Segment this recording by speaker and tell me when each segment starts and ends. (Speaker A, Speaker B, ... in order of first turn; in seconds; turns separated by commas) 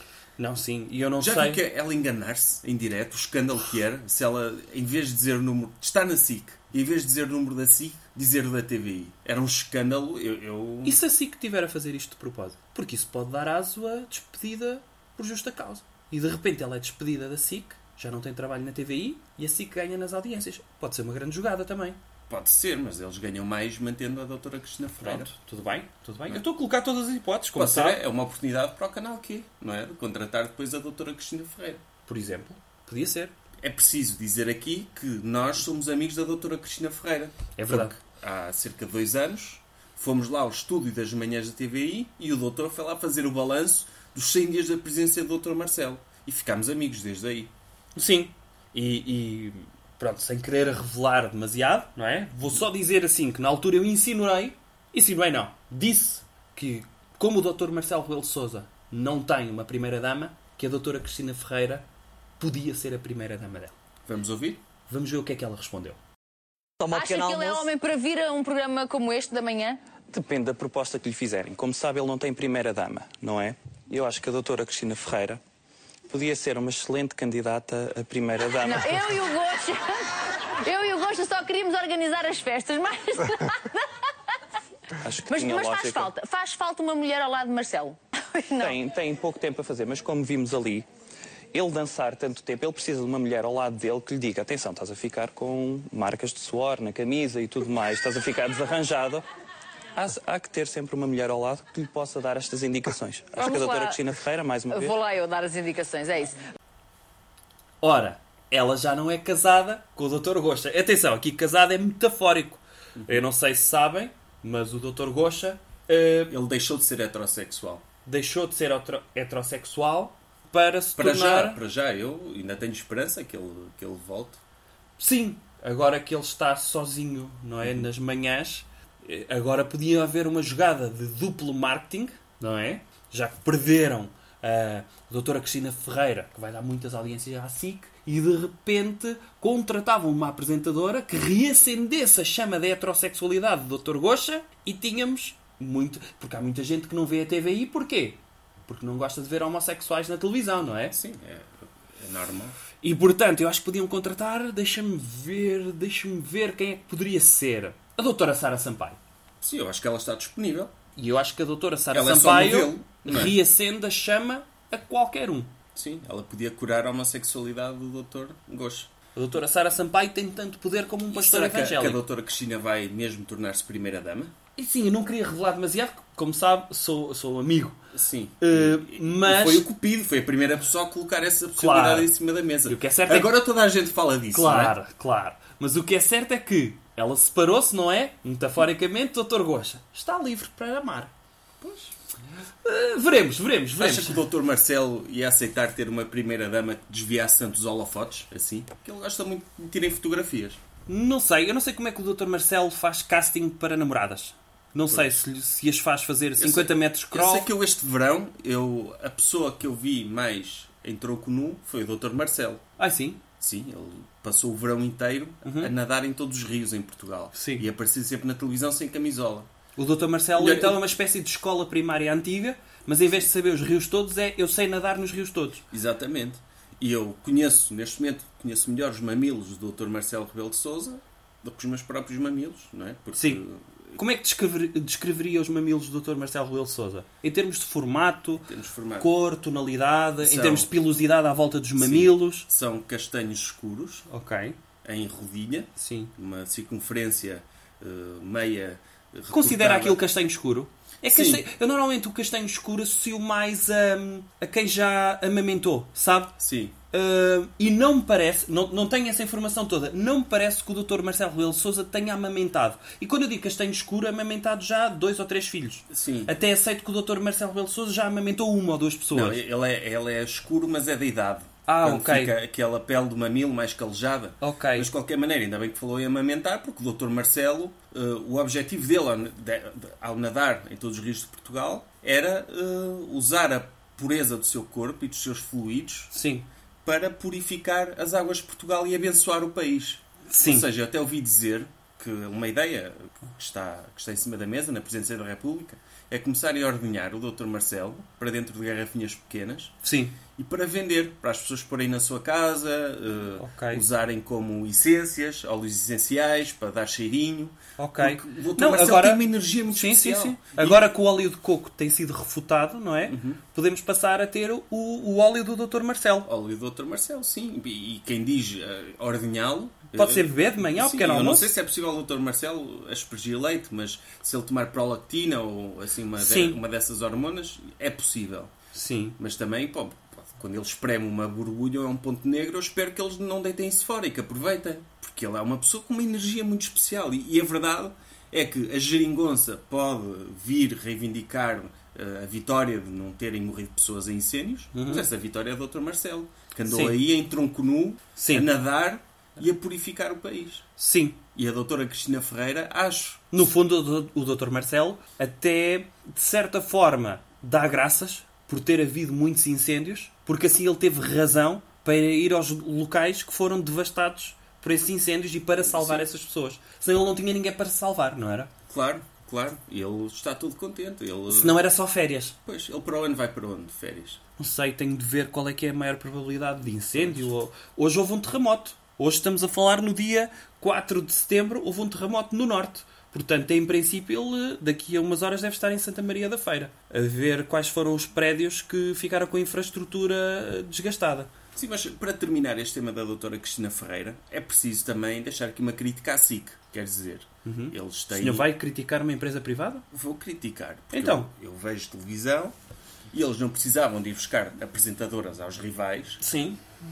Speaker A: 0.4-1.6, Speaker B: 1.2-11.0, Speaker A: 10.8-22.0, Speaker B: 22.3-25.3, Speaker A: 25.0-28.0, Speaker B: 27.5-31.8, Speaker A: 32.0-33.3, Speaker B: 33.6-47.5, Speaker A: 37.5-38.0, Speaker A: 47.9-61.8, Speaker A: 62.4-63.7, Speaker B: 64.0-64.6, Speaker A: 64.9-66.0, Speaker C: 66.8-67.7, Speaker D: 66.9-69.8, Speaker C: 70.1-75.4, Speaker C: 76.1-79.2, Speaker D: 78.6-83.9, Speaker C: 85.0-86.1, Speaker D: 85.2-88.8, Speaker C: 88.6-90.8, Speaker C: 91.5-99.2, Speaker C: 100.0-105.0, Speaker D: 103.3-104.0, Speaker D: 104.7-106.4, Speaker A: 107.8-116.3, Speaker B: 116.3-117.8, Speaker A: 118.0-121.6, Speaker B: 121.0-124.4, Speaker A: 125.0-150.9, Speaker B: 150.9-152.6, Speaker A: 152.8-159.0, Speaker B: 159.4-160.7, Speaker A: 160.9-165.5, Speaker B: 161.9-163.4, Speaker B: 165.7-168.9, Speaker A: 169.2-172.0, Speaker B: 171.1-174.3, Speaker A: 174.6-177.8, Speaker B: 177.9-184.7, Speaker A: 178.4-179.7, Speaker A: 181.5-182.1, Speaker A: 182.7-183.4, Speaker A: 184.3-191.1, Speaker B: 191.6-191.9, Speaker A: 192.6-194.2, Speaker B: 193.8-200.6, Speaker A: 200.9-207.5, Speaker B: 206.4-212.6, Speaker A: 212.8-213.2, Speaker B: 213.4-219.5, Speaker A: 215.4-215.7, Speaker A: 217.3-217.7, Speaker A: 219.8-225.6, Speaker B: 220.3-220.8, Speaker B: 225.7-234.0, Speaker A: 233.1-233.4, Speaker A: 233.9-238.4, Speaker B: 238.4-239.1, Speaker A: 239.0-242.5, Speaker B: 240.2-240.7, Speaker B: 241.8-244.1, Speaker A: 244.1-244.6, Speaker B: 244.8-250.0, Speaker A: 245.8-246.1, Speaker A: 249.3-256.4, Speaker B: 251.1-251.4, Speaker B: 256.4-256.7, Speaker A: 256.9-269.4, Speaker B: 265.9-266.3, Speaker B: 269.1-286.1, Speaker A: 271.7-272.3, Speaker A: 274.4-274.9, Speaker A: 286.1-286.5, Speaker B: 286.8-299.7, Speaker A: 290.3-290.7, Speaker A: 299.8-300.2, Speaker B: 300.3-310.9, Speaker A: 303.4-303.8, Speaker A: 307.8-316.3, Speaker B: 313.1-313.4, Speaker B: 316.2-328.5, Speaker A: 319.9-321.6, Speaker A: 326.2-326.6, Speaker A: 328.7-329.2, Speaker B: 329.2-350.6, Speaker A: 344.7-345.1, Speaker A: 346.7-347.0, Speaker A: 348.1-348.5, Speaker A: 350.8-351.2, Speaker B: 351.3-353.5, Speaker A: 353.3-368.5, Speaker B: 365.6-366.0, Speaker B: 368.7-371.6, Speaker A: 371.3-372.3, Speaker B: 372.4-374.2, Speaker A: 374.4-391.3, Speaker B: 376.9-377.3, Speaker B: 391.5-398.5, Speaker A: 397.4-399.8, Speaker B: 399.9-402.5, Speaker A: 400.9-401.3, Speaker B: 403.1-406.2, Speaker A: 406.2-406.6